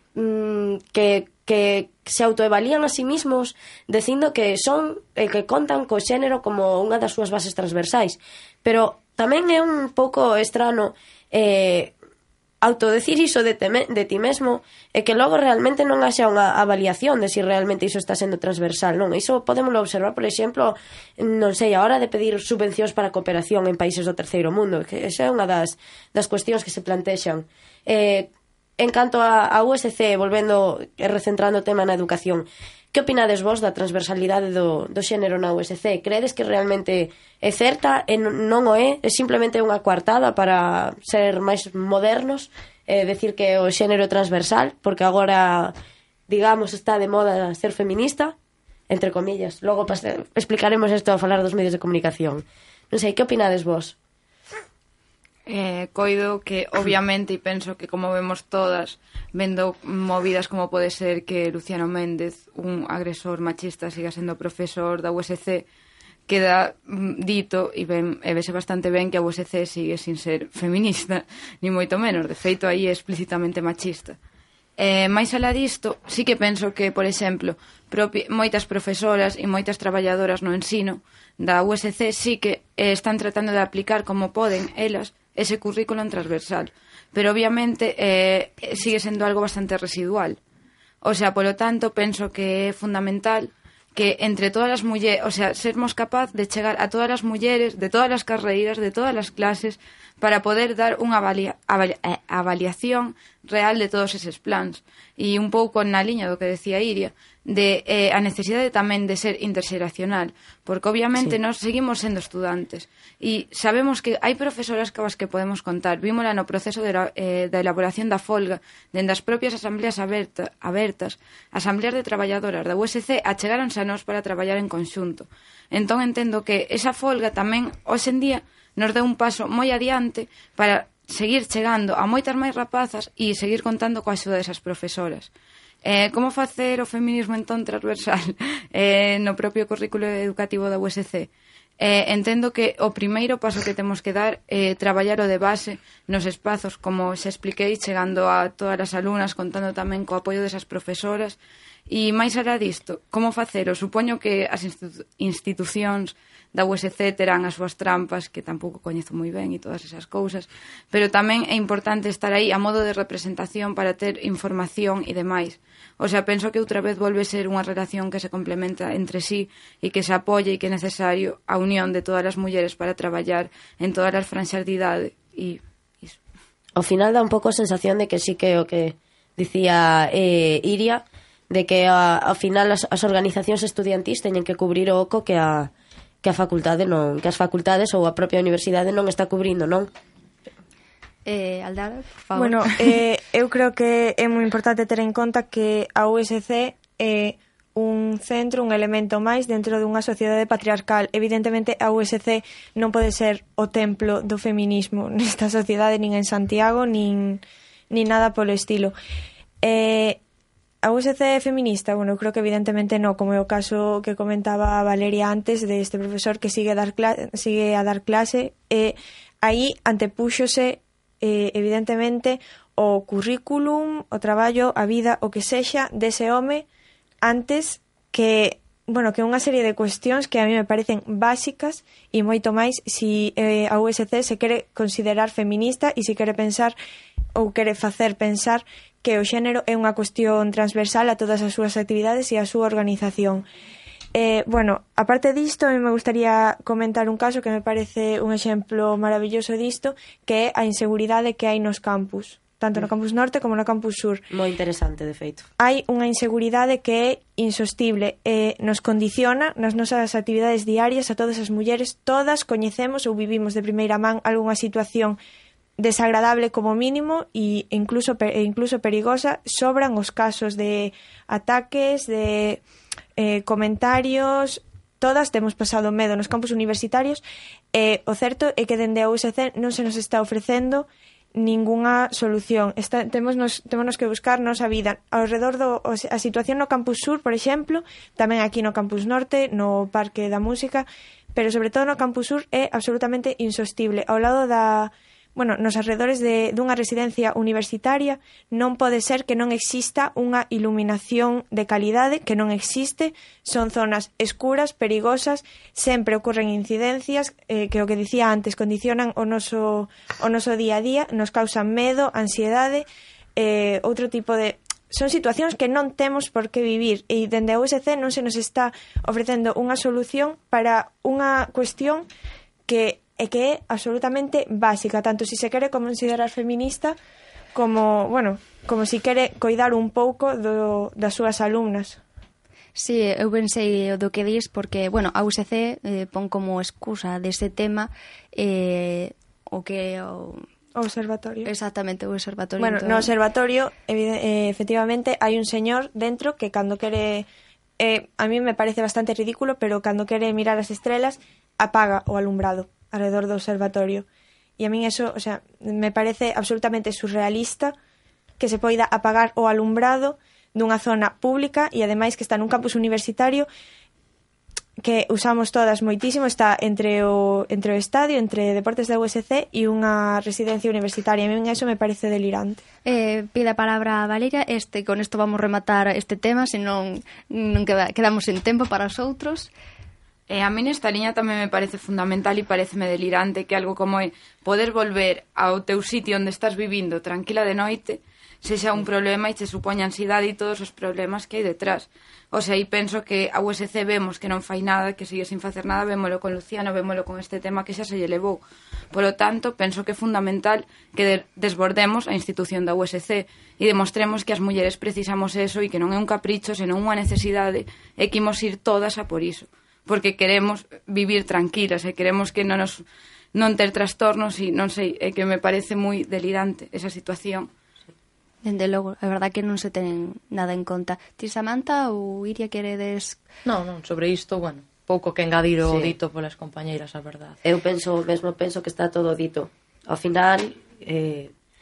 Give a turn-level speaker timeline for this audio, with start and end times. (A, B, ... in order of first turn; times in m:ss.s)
0:00.2-0:11.9 A
0:12.6-0:45.7 A
0:46.3-0:48.3 A
0:48.9-0:54.0 A
0:55.5-1:05.6 B
1:06.3-1:14.2 B
1:14.8-1:30.4 B
1:31.0-2:15.3 B
2:15.8-2:56.2 B
2:56.8-3:05.7 A
3:06.2-3:09.9 A
3:11.2-3:12.7 C
3:12.3-3:28.9 D
3:29.6-3:30.2 D
3:30.8-3:46.6 D
3:47.2-3:56.7 D
3:57.3-4:03.4 D
4:04.1-4:14.2 D
4:14.3-4:15.4 A
4:15.6-4:25.2 D
4:25.8-4:32.6 D
4:33.2-5:22.1 D
5:22.7-5:27.0 D
5:27.5-5:32.0 D
5:32.7-5:40.4 C
5:40.7-5:41.5 D
5:41.4-5:43.1 C
5:42.6-5:47.3 D
5:47.8-5:54.0 D
5:54.6-5:57.7 D
5:58.4-6:03.5 D
6:04.8-6:12.6 D
6:12.8-6:19.5 C
6:20.3-6:57.5 B
6:58.4-7:03.2 C
7:03.4-7:07.4 E
7:05.6-7:05.9 A
7:07.4-7:11.3 A